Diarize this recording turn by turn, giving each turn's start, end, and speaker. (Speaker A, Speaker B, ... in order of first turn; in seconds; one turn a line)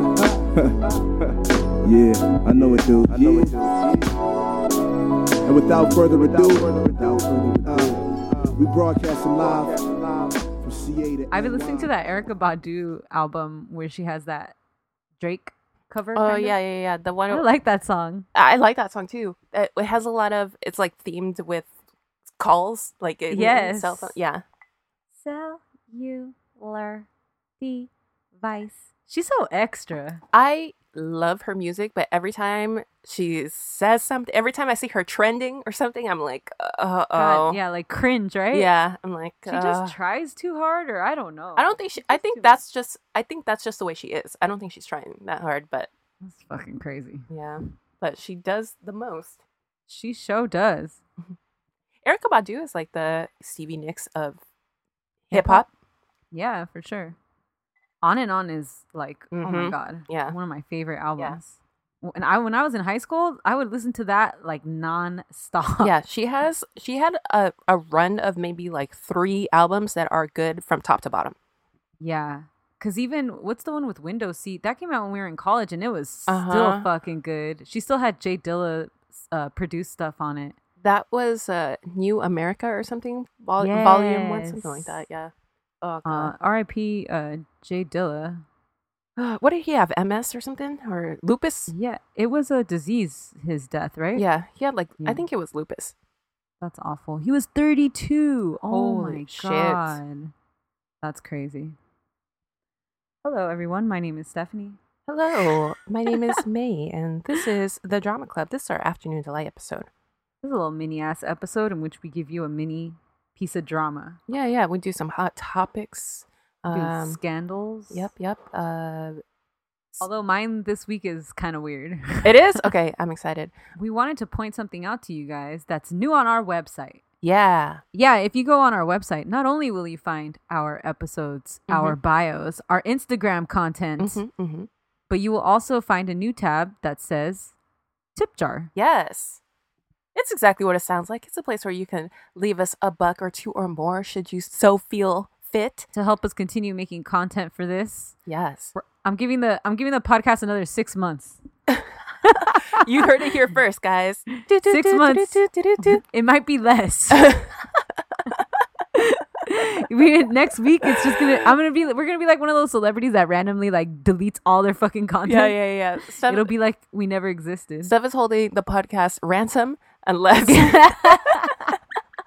Speaker A: 0.3-0.8
Speaker A: 1.8-4.1
Speaker A: 5.5-11.9
Speaker B: 11.3-14.6
Speaker B: 15.2-16.6
Speaker C: 16.2-17.4
Speaker B: 17.3-18.3
Speaker C: 18.4-21.7
Speaker C: 22.4-24.4
Speaker B: 23.3-24.2
Speaker B: 25.2-27.1
Speaker B: 27.6-30.2
Speaker C: 30.3-37.6
Speaker B: 37.1-38.7
Speaker C: 38.5-40.0
Speaker B: 39.5-42.5
Speaker C: 41.6-45.9
Speaker B: 46.2-47.3
Speaker C: 47.3-49.4
Speaker B: 49.9-51.0
Speaker C: 52.0-54.4
Speaker C: 55.3-55.7
Speaker B: 55.3-55.7
Speaker B: 56.3-57.2
Speaker B: 58.0-65.9
Speaker C: 59.3-60.4
Speaker C: 65.8-71.4
Speaker B: 72.0-80.6
Speaker C: 76.3-76.9
Speaker C: 80.8-86.3
Speaker B: 83.6-85.0
Speaker B: 86.1-88.4
Speaker C: 89.2-91.7
Speaker B: 91.7-94.2
Speaker C: 94.2-96.0
Speaker B: 95.0-95.2
Speaker B: 96.6-100.3
Speaker C: 98.7-100.0
Speaker B: 101.0-101.8
Speaker B: 103.2-104.8
Speaker C: 105.1-109.9
Speaker B: 110.4-114.2
Speaker C: 114.3-117.2
Speaker B: 116.7-118.1
Speaker C: 117.9-119.2
Speaker B: 120.0-122.6
Speaker C: 122.2-123.5
Speaker B: 123.8-127.0
Speaker C: 127.2-127.8
Speaker B: 127.9-134.2
Speaker C: 131.7-132.0
Speaker C: 134.0-134.7
Speaker B: 135.1-137.5
Speaker B: 138.2-138.7
Speaker C: 138.8-139.4
Speaker C: 140.2-145.9
Speaker B: 145.9-148.2
Speaker C: 148.3-148.7
Speaker B: 148.8-151.4
Speaker B: 152.2-152.8
Speaker C: 152.7-156.0
Speaker B: 154.7-157.4
Speaker C: 157.2-157.5
Speaker B: 158.9-165.6
Speaker C: 161.0-161.3
Speaker C: 165.3-166.5
Speaker B: 166.2-167.9
Speaker C: 167.8-171.4
Speaker B: 170.4-171.7